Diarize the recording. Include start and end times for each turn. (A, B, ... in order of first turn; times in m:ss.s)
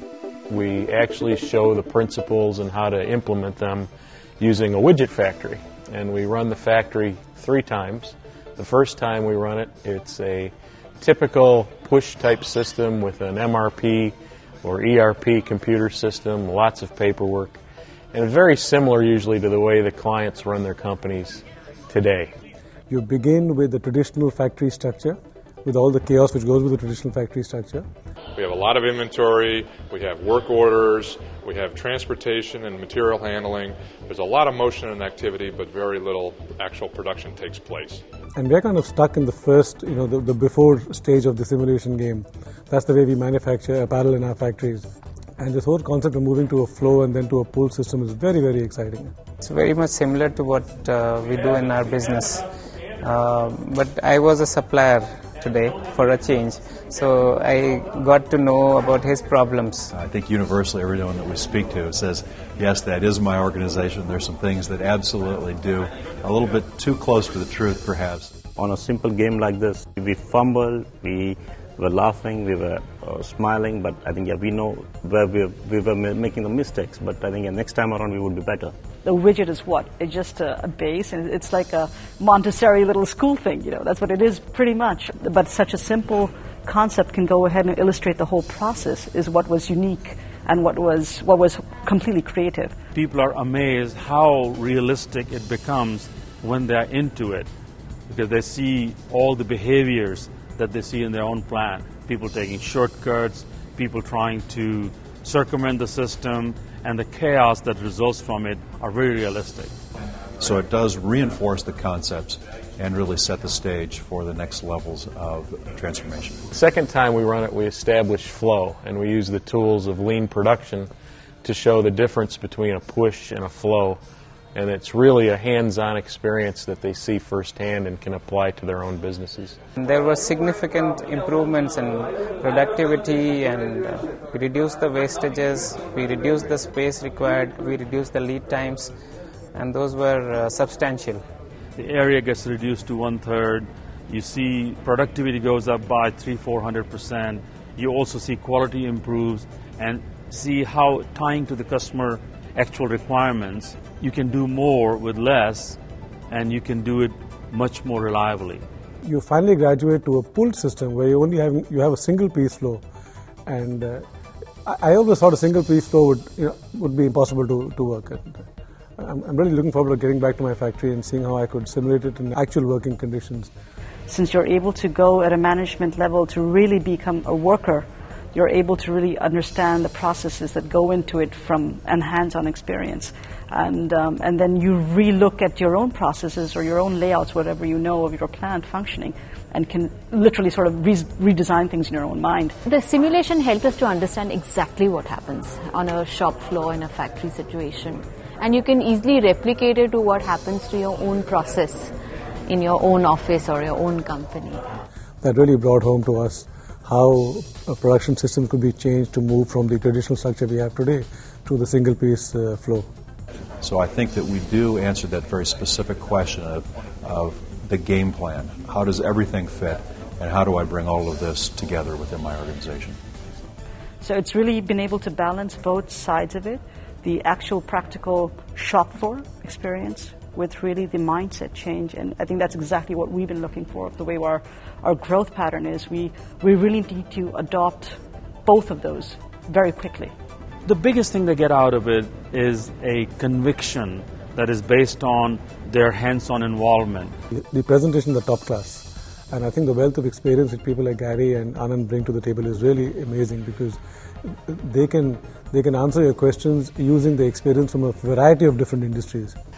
0:00.5-0:17.6 A
0:18.1-0:22.3 A
0:22.9-0:27.8 B
0:28.4-0:38.0 C
0:38.4-0:44.8 B
0:45.4-0:49.1 B
0:49.4-0:52.4 D
0:53.0-0:59.9 D
0:59.9-1:08.4 E
1:08.6-1:18.7 F
1:19.0-1:32.7 G
1:32.9-1:37.5 H
1:38.1-1:49.7 H
1:50.4-1:56.4 E
1:56.5-2:00.9 A
2:01.4-2:04.0 A
2:04.5-2:09.6 A
2:09.8-2:18.9 D
2:19.5-2:21.2 D
2:21.8-2:35.8 H
2:36.3-2:38.6 H
2:39.0-2:42.8 B
2:43.4-2:44.0 B
2:44.6-2:48.4 B
2:49.0-2:53.5 B
2:54.1-3:12.5 G
3:12.6-3:21.9 I
3:22.5-3:24.6 I
3:25.2-3:32.9 B
3:33.6-3:43.0 E
3:44.0-4:00.1 G
4:00.6-4:07.1 H
4:07.3-4:13.8 B
4:14.5-4:19.4 B